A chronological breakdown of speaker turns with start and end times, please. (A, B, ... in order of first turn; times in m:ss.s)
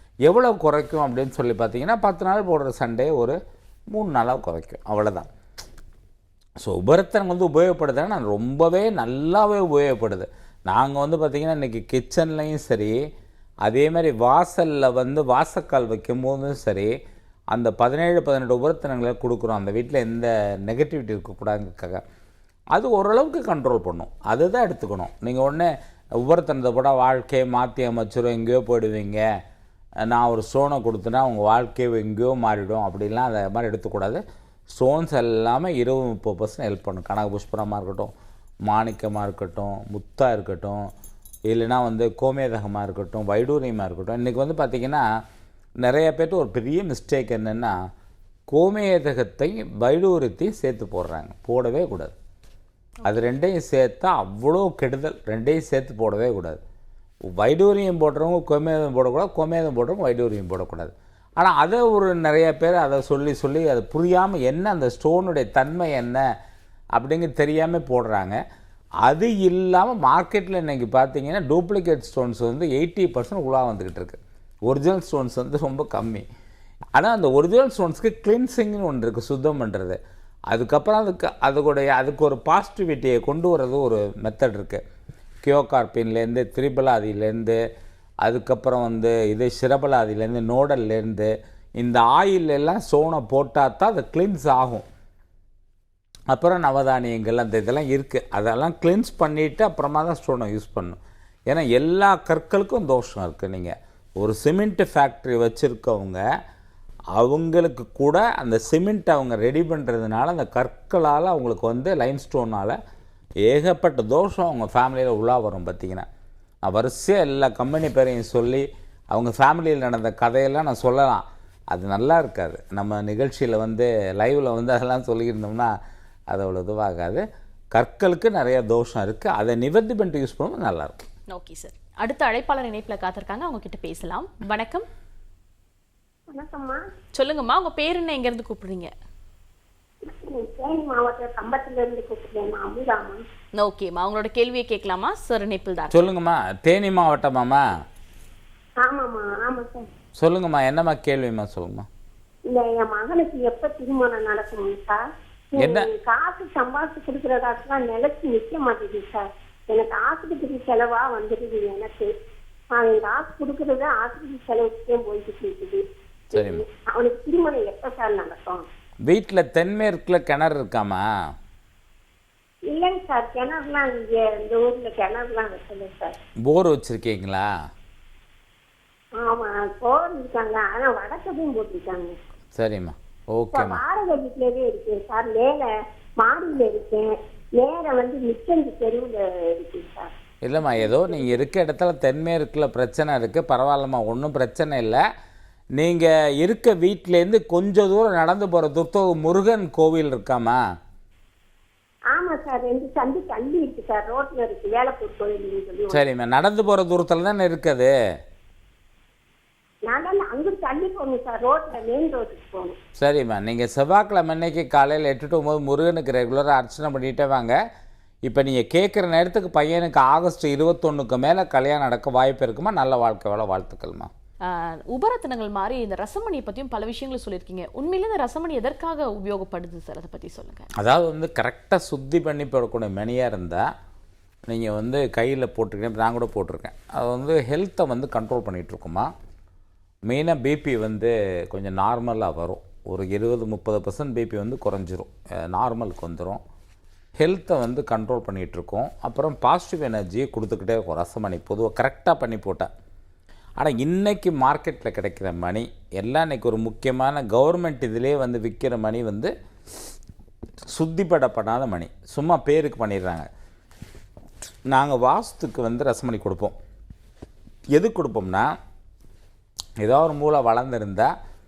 0:00.2-0:03.4 A
0:03.9-0:05.3 A
0:06.6-0:13.0 A
0:13.6-0:16.9 A
0:17.5-0:22.0 A
0:22.7-0:29.2 A
0:30.1-0:38.1 A
0:38.6-0:40.8 A
0:41.5-0:45.0 A
0:45.8-0:47.7 A
0:48.5-0:52.1 A
0:53.0-0:56.6 A
0:57.3-1:06.2 A
1:07.0-1:08.4 A
1:09.0-1:16.2 A
1:17.0-1:20.0 A
1:20.5-1:24.8 A
1:25.4-1:27.6 A
1:28.2-1:34.8 A
1:36.3-1:46.2 A
1:47.1-1:52.8 A
1:53.4-1:56.1 A
1:56.6-2:05.7 A
2:06.3-2:07.2 A
2:07.7-2:11.0 A
2:11.3-2:14.9 B
2:16.3-2:16.8 C
2:17.1-2:18.9 B
2:20.0-2:23.2 C
2:23.6-2:26.0 B
2:25.9-2:27.6 A
2:28.8-2:29.9 C
2:30.2-2:31.9 A
2:32.5-2:35.0 C
2:35.5-2:42.1 C
2:35.6-2:35.9 A
2:42.7-2:48.6 C
2:46.3-2:46.6 A
2:49.0-2:51.0 A
2:52.7-2:56.1 C
2:56.4-2:57.5 A
2:59.2-3:02.1 C
3:02.6-3:03.8 A
3:03.5-3:05.7 C
3:06.2-3:11.5 C
3:10.4-3:15.0 A
3:15.8-3:20.6 A
3:22.1-3:26.0 C
3:25.9-3:27.9 A
3:29.8-3:32.7 C
3:33.0-3:37.5 A
3:38.2-3:44.1 A
3:44.4-3:50.7 B
3:50.8-3:53.7 A
3:54.5-3:59.1 A
4:00.1-4:06.4 A
4:07.2-4:12.7 A
4:13.6-4:19.3 A
4:20.7-4:23.3 A
4:24.7-4:26.6 A
4:27.7-4:28.5 A
4:29.8-4:31.1 A